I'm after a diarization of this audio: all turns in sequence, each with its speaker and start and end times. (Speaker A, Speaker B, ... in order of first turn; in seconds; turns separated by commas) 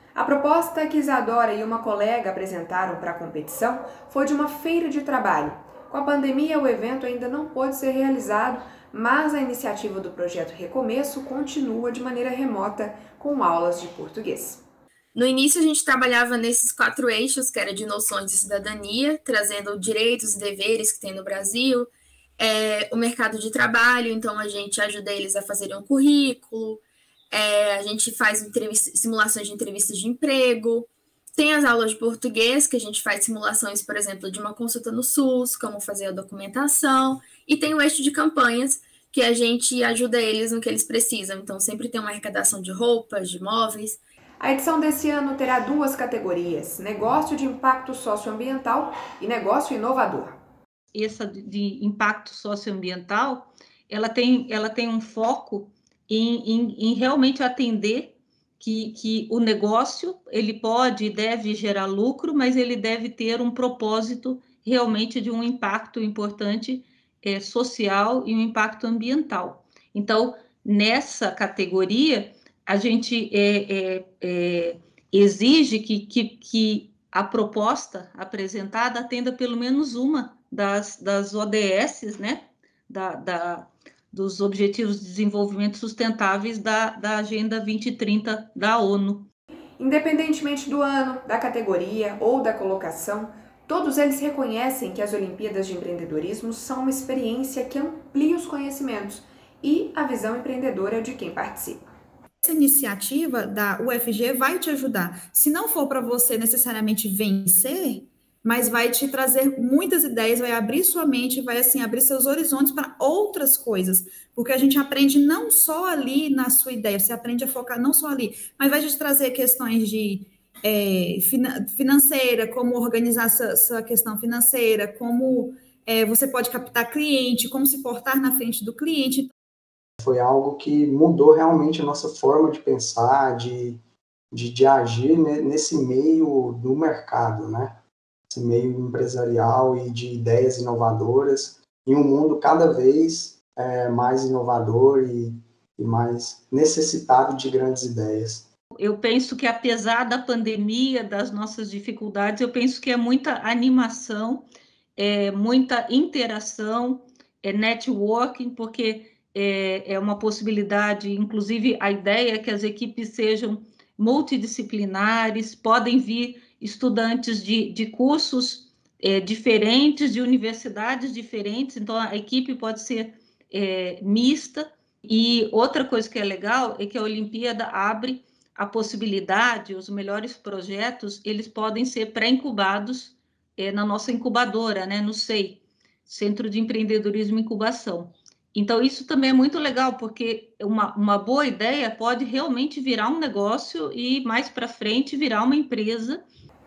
Speaker A: 0.1-14.6, Speaker B: 15.1-44.0, Speaker A: 44.4-50.4, Speaker C: 50.9-89.3, Speaker A: 89.8-101.9, Speaker D: 102.4-129.3, Speaker E: 130.0-133.8, Speaker E: 134.3-148.4, Speaker C: 148.8-196.2